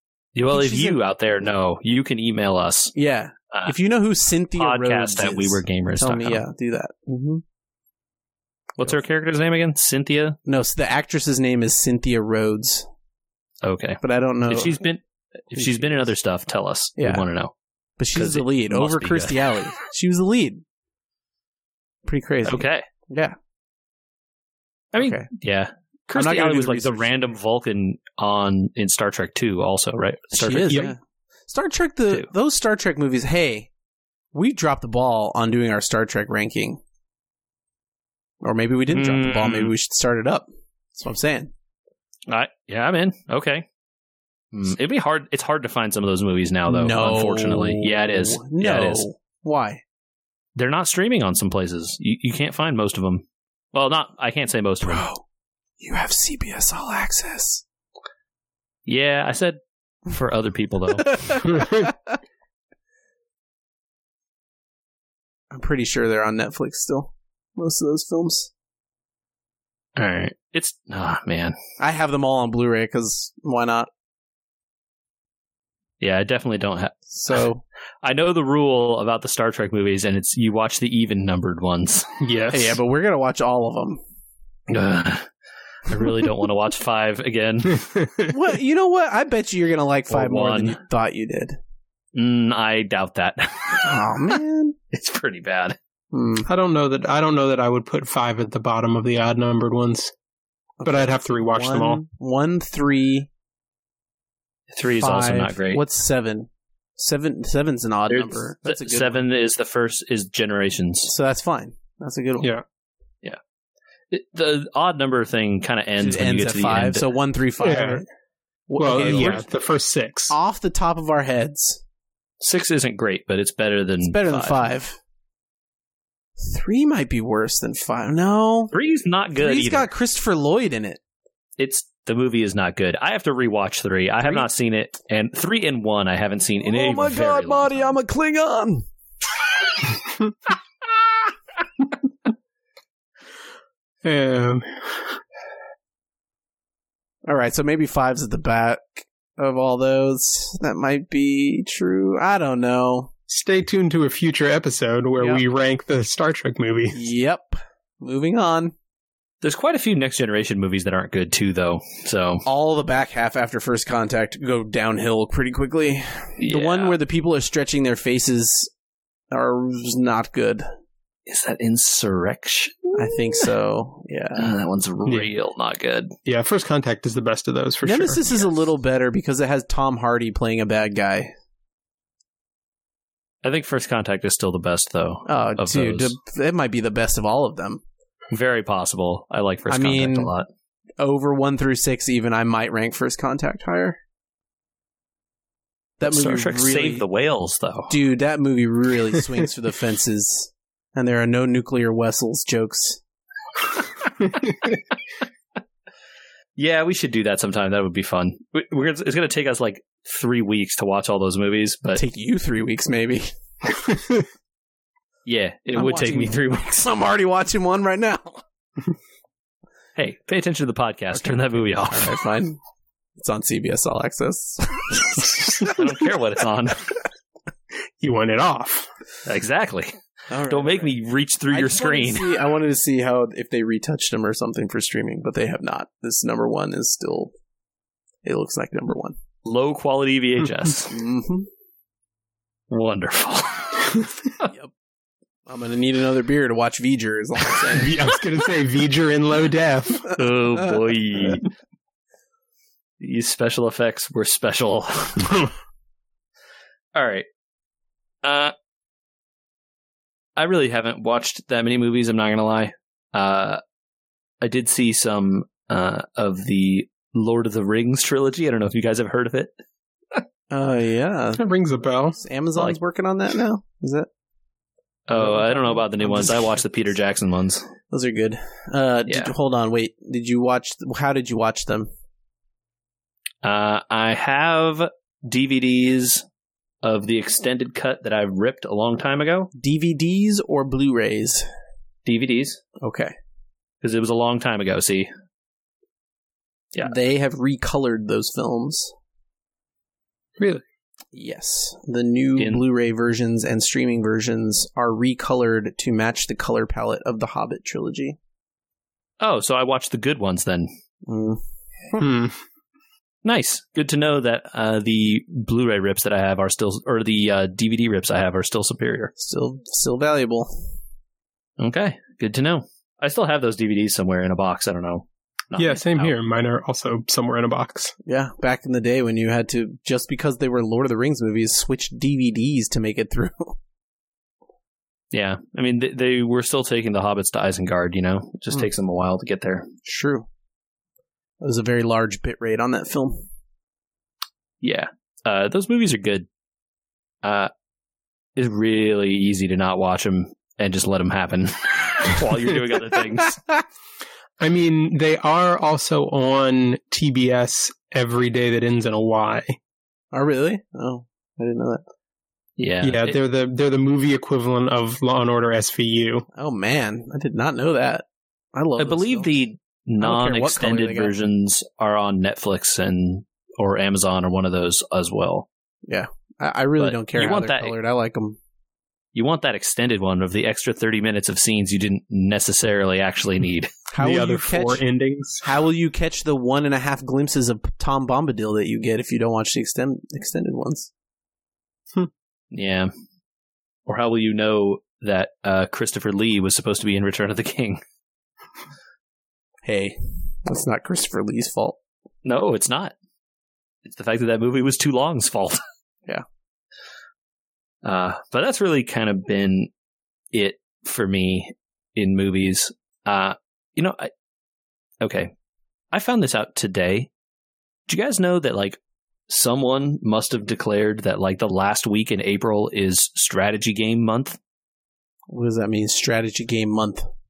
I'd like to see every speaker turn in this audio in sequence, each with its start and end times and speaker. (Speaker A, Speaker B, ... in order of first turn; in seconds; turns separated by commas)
Speaker A: 0.3-2.9, Speaker B: 0.5-1.0, Speaker B: 2.9-7.4, Speaker A: 4.6-6.4, Speaker A: 8.8-10.4, Speaker B: 10.4-12.9, Speaker A: 13.6-17.5, Speaker B: 14.0-14.8, Speaker B: 15.5-16.1, Speaker B: 17.0-17.2, Speaker B: 18.0-20.6, Speaker A: 18.1-19.5, Speaker B: 22.0-23.3, Speaker A: 22.4-22.8, Speaker A: 24.9-30.9, Speaker B: 25.0-25.3, Speaker B: 26.1-27.1, Speaker B: 30.3-33.7, Speaker B: 34.3-36.8, Speaker B: 38.4-41.5, Speaker A: 38.9-39.7, Speaker A: 42.3-43.6, Speaker A: 44.5-49.0, Speaker B: 46.7-49.8, Speaker A: 50.5-55.1, Speaker B: 54.8-55.2, Speaker B: 55.8-57.6, Speaker A: 58.9-61.6, Speaker B: 61.0-62.1, Speaker C: 61.5-61.9, Speaker B: 65.5-68.5, Speaker A: 70.0-71.5, Speaker B: 71.8-73.9, Speaker A: 76.0-77.5, Speaker B: 77.1-77.6, Speaker A: 78.0-82.1, Speaker C: 82.2-82.8, Speaker B: 82.5-84.0, Speaker A: 84.7-85.3, Speaker A: 85.9-87.9, Speaker C: 87.8-88.3, Speaker B: 88.3-91.6, Speaker A: 90.1-90.8, Speaker A: 92.1-94.3, Speaker B: 93.8-94.8, Speaker A: 94.9-95.8, Speaker B: 96.1-96.5, Speaker C: 96.5-100.1, Speaker B: 100.8-103.3, Speaker C: 100.8-102.0, Speaker A: 104.7-105.8, Speaker B: 105.0-109.2, Speaker A: 108.1-111.1, Speaker B: 111.1-112.5, Speaker A: 114.1-117.0, Speaker B: 116.0-118.0, Speaker C: 117.6-118.0, Speaker B: 118.7-119.4, Speaker C: 118.8-120.3, Speaker A: 118.9-119.4, Speaker B: 120.3-121.8, Speaker A: 122.4-124.7, Speaker B: 124.0-125.0, Speaker B: 126.4-128.7, Speaker A: 128.7-129.9, Speaker B: 129.4-131.0, Speaker A: 131.6-137.9, Speaker B: 136.6-138.8, Speaker C: 144.0-145.2, Speaker B: 147.2-153.1, Speaker C: 153.3-157.1, Speaker B: 156.9-158.7, Speaker A: 159.4-162.4, Speaker B: 162.4-168.7, Speaker A: 166.4-167.0, Speaker B: 169.3-170.6, Speaker A: 171.3-172.9, Speaker B: 172.9-174.5, Speaker A: 174.3-176.1, Speaker C: 176.2-178.2, Speaker B: 177.8-181.3, Speaker A: 183.4-186.1, Speaker B: 185.2-187.8, Speaker A: 188.3-190.5, Speaker B: 189.7-190.3, Speaker B: 191.0-194.0, Speaker B: 196.0-197.0, Speaker A: 196.0-197.9, Speaker B: 197.9-203.0, Speaker A: 206.6-212.0, Speaker B: 211.9-213.3, Speaker A: 215.2-216.7, Speaker B: 215.7-218.4, Speaker A: 219.9-222.2, Speaker B: 221.1-222.6, Speaker B: 223.2-225.8, Speaker A: 225.6-226.9, Speaker C: 228.0-228.9, Speaker A: 229.2-229.9, Speaker B: 230.3-230.9, Speaker A: 230.5-232.3, Speaker B: 231.5-237.3, Speaker B: 238.2-239.2, Speaker A: 239.4-241.0, Speaker B: 240.9-241.5, Speaker A: 242.7-244.5, Speaker B: 245.4-248.0, Speaker C: 247.7-250.1, Speaker B: 250.1-250.8, Speaker A: 250.1-251.5, Speaker A: 253.0-255.3, Speaker A: 256.9-257.2, Speaker A: 258.2-258.5, Speaker A: 260.4-263.6, Speaker A: 264.4-269.5, Speaker B: 270.5-271.4, Speaker C: 271.4-272.2, Speaker B: 272.1-274.1, Speaker A: 275.1-277.7, Speaker B: 275.1-276.6, Speaker B: 277.9-281.9, Speaker A: 283.4-286.2, Speaker A: 286.8-289.5, Speaker B: 289.5-291.4, Speaker A: 292.1-292.6, Speaker B: 292.8-293.1, Speaker A: 293.8-295.1, Speaker B: 296.8-298.9, Speaker B: 301.1-308.2, Speaker A: 302.4-302.6, Speaker A: 309.2-310.7, Speaker B: 311.1-312.0, Speaker C: 312.0-312.4, Speaker A: 313.2-319.1, Speaker B: 319.2-320.7, Speaker A: 321.6-326.1, Speaker C: 325.6-327.9, Speaker B: 328.1-333.6, Speaker A: 335.1-339.7, Speaker B: 339.8-340.3, Speaker B: 341.4-343.3, Speaker A: 344.6-346.3, Speaker A: 347.2-347.5, Speaker A: 348.4-353.4, Speaker C: 354.4-359.6, Speaker B: 360.1-361.8, Speaker A: 362.6-363.2, Speaker C: 362.8-366.2, Speaker B: 366.3-369.3, Speaker A: 368.8-375.5, Speaker B: 370.0-371.1, Speaker B: 375.9-378.4, Speaker A: 376.8-377.7, Speaker A: 379.1-383.7, Speaker B: 383.9-384.8, Speaker C: 384.0-385.4, Speaker B: 385.4-390.9, Speaker A: 392.5-392.9, Speaker A: 393.9-397.8, Speaker B: 399.6-401.8, Speaker A: 402.2-402.9, Speaker A: 403.8-405.6, Speaker A: 407.8-409.7, Speaker A: 410.3-414.1, Speaker A: 415.0-415.3, Speaker A: 415.9-417.1, Speaker A: 417.9-424.4, Speaker B: 425.3-427.1